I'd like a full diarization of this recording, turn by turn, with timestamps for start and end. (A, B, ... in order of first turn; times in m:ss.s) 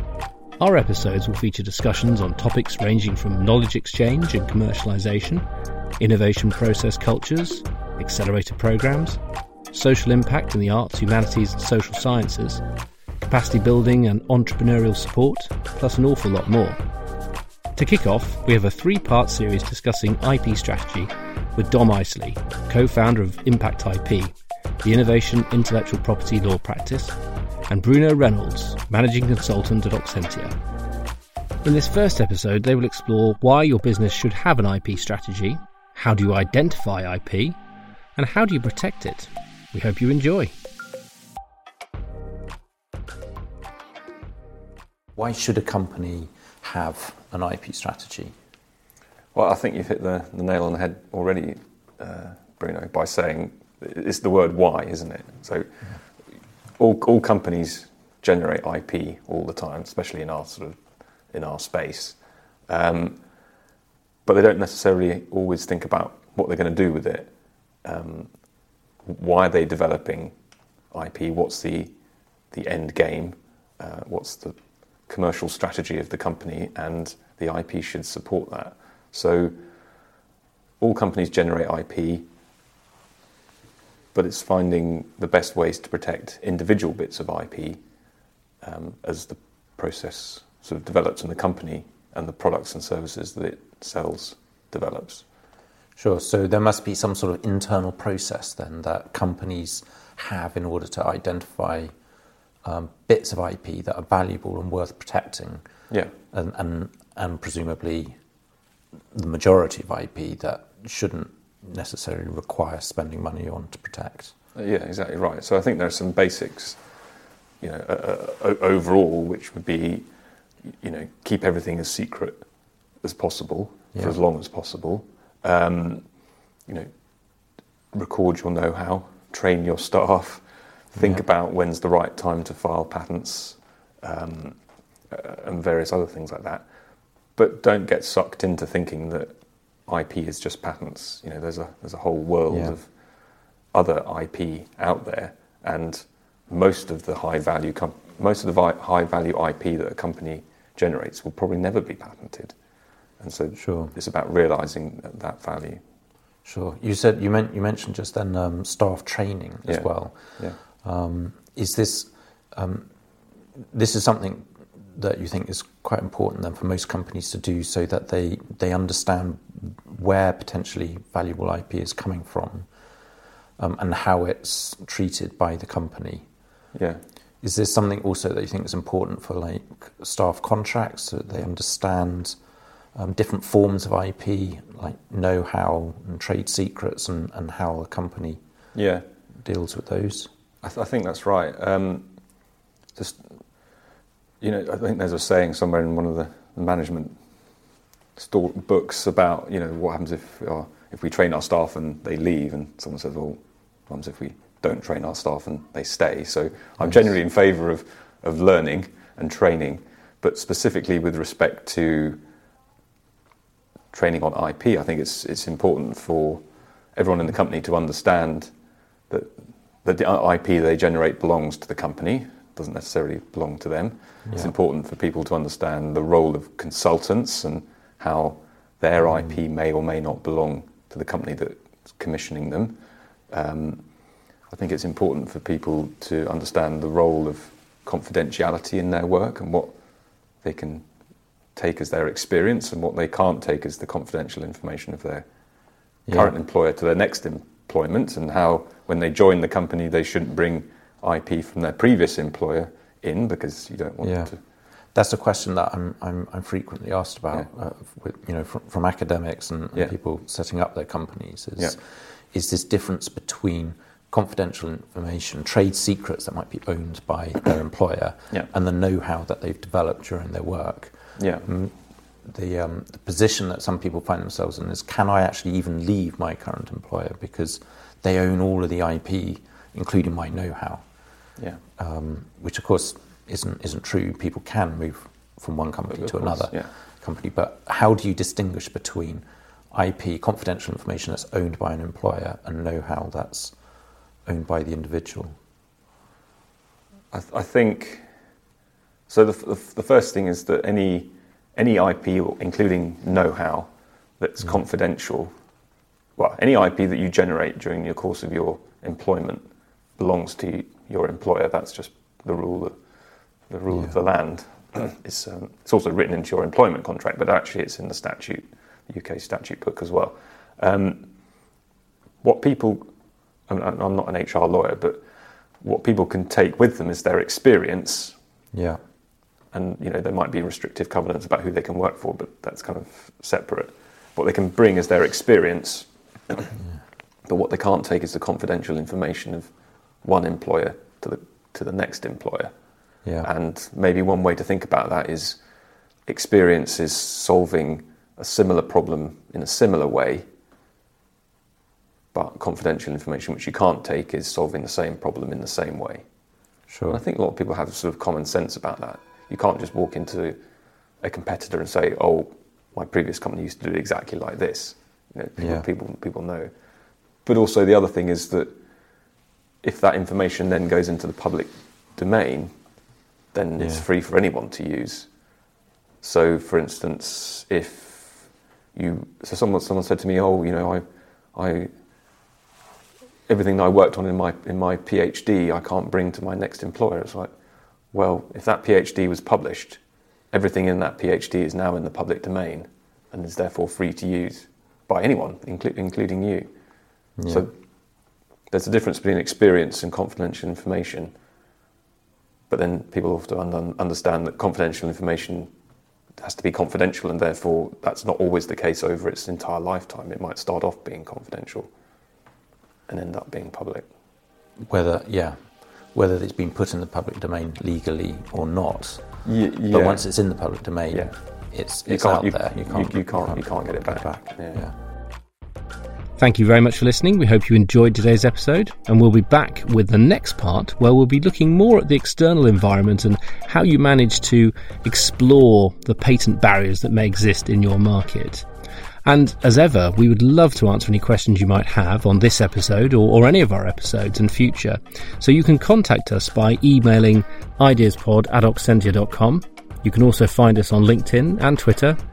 0:00.6-0:05.4 A
0:06.0-0:12.6 A
0:13.2-0:16.8 A
0:17.8-0:27.2 A
0:27.7-0:30.5 A
0:31.6-0:37.6 A
0:38.2-0:40.5 A
0:45.2-0:48.3 B
0:49.4-0:55.7 C
0:56.8-1:03.2 C
1:04.3-1:07.3 C
1:07.8-1:08.3 C
1:09.1-1:10.3 C
1:10.9-1:11.9 C
1:12.5-1:14.6 C
1:15.1-1:19.5 C
1:20.8-1:22.3 C
1:24.2-1:27.8 C
1:28.6-1:35.2 C
1:36.0-1:41.9 B
1:42.6-1:45.6 B
1:46.3-1:48.2 B
1:49.1-1:54.3 B
1:54.6-1:56.8 C
1:57.6-2:00.1 C
2:00.8-2:02.4 C
2:03.0-2:06.1 C
2:07.9-2:14.6 C
2:11.0-2:11.2 B
2:15.1-2:16.7 C
2:17.4-2:19.3 C
2:19.9-2:22.9 C
2:22.5-2:22.8 B
2:23.7-2:32.5 C
2:33.2-2:35.8 C
2:33.6-2:33.9 B
2:36.5-2:42.9 B
2:39.7-2:40.6 C
2:43.6-2:52.7 B
2:53.6-2:56.2 B
2:56.8-2:57.0 C
2:57.4-3:02.4 B
3:03.0-3:08.4 B
3:08.8-3:09.0 C
3:09.4-3:10.3 B
3:10.6-3:12.1 C
3:13.0-3:13.3 C
3:14.4-3:17.2 C
3:18.2-3:32.2 C
3:33.9-3:36.4 C
3:37.0-3:38.5 C
3:39.1-3:52.8 C
3:44.3-3:44.5 B
3:53.3-3:53.8 C
3:54.5-3:59.7 C
4:00.4-4:00.8 C
4:01.6-4:05.3 C
4:06.1-4:06.4 B
4:06.1-4:14.4 C
4:14.0-4:14.3 B
4:15.0-4:31.7 B
4:31.2-4:31.5 C
4:32.3-4:40.8 B
4:41.8-4:53.5 B
4:46.0-4:46.7 C
4:54.3-4:55.3 B
4:57.1-4:58.1 C
4:59.1-5:05.3 C
5:06.2-5:09.5 C
5:10.0-5:12.8 C
5:13.5-5:21.1 C
5:13.7-5:14.0 B
5:22.2-5:22.9 C
5:23.5-5:25.0 C
5:25.6-5:28.2 C
5:28.5-5:28.8 B
5:29.5-5:36.6 C
5:37.3-5:39.5 C
5:40.0-5:42.5 C
5:43.2-5:45.4 C
5:46.1-5:50.2 C
5:52.1-5:56.0 C
5:56.7-5:57.0 B
5:56.9-6:00.4 C
6:01.0-6:06.5 C
6:05.4-6:05.7 B
6:07.2-6:08.6 C
6:09.6-6:12.5 C
6:13.3-6:15.1 C
6:13.6-6:13.9 B
6:16.0-6:21.7 C
6:23.3-6:27.3 C
6:27.9-6:29.8 C
6:30.3-6:36.5 C
6:37.2-6:37.5 B
6:38.5-6:41.1 C
6:42.5-6:45.5 C
6:46.2-6:51.7 C
6:52.9-6:53.9 C
6:54.7-6:59.0 B
6:59.2-7:00.1 C
6:59.7-7:04.8 B
7:01.9-7:04.6 C
7:06.2-7:18.5 A
7:19.0-7:32.0 A